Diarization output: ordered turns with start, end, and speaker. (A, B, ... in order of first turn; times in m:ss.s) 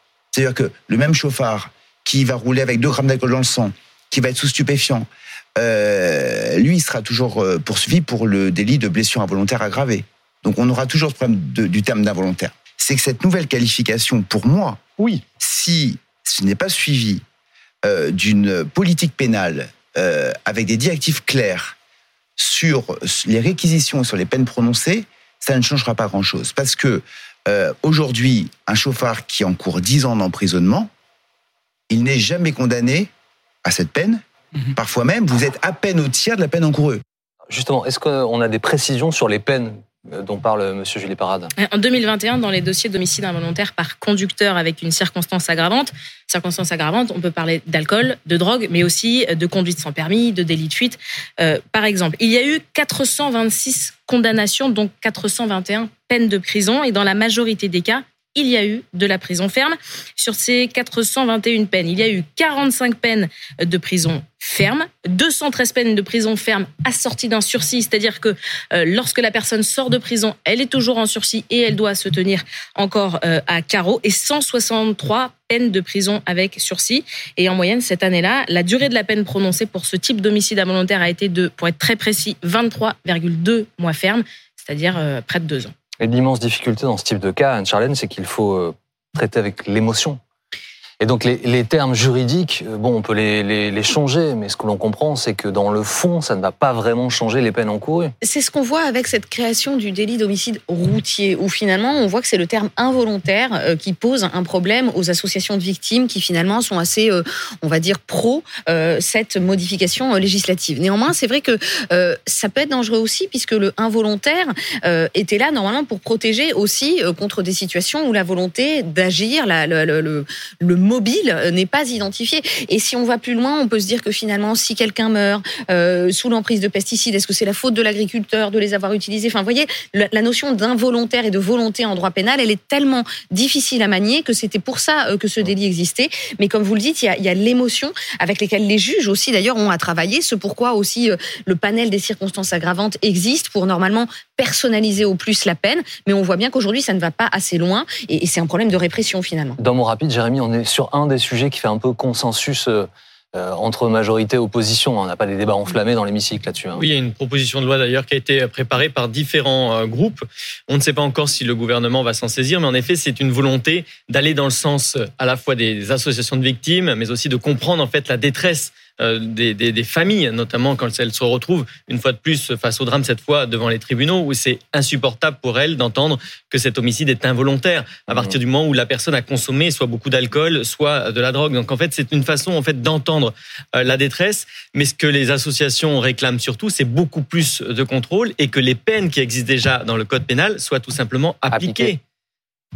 0:00.3-0:17.2 A
0:17.8-0:21.8 A
0:22.4-0:30.9 A
0:31.9-0:33.1 A
0:33.6-0:34.2 A
0:34.7-0:37.0 A
0:37.5-0:41.5 B
0:41.6-1:25.7 C
1:26.0-1:30.2 B
1:31.0-1:38.1 B
1:38.2-2:29.6 D
2:29.6-2:36.8 B
2:36.8-3:12.0 E
3:11.5-3:11.9 B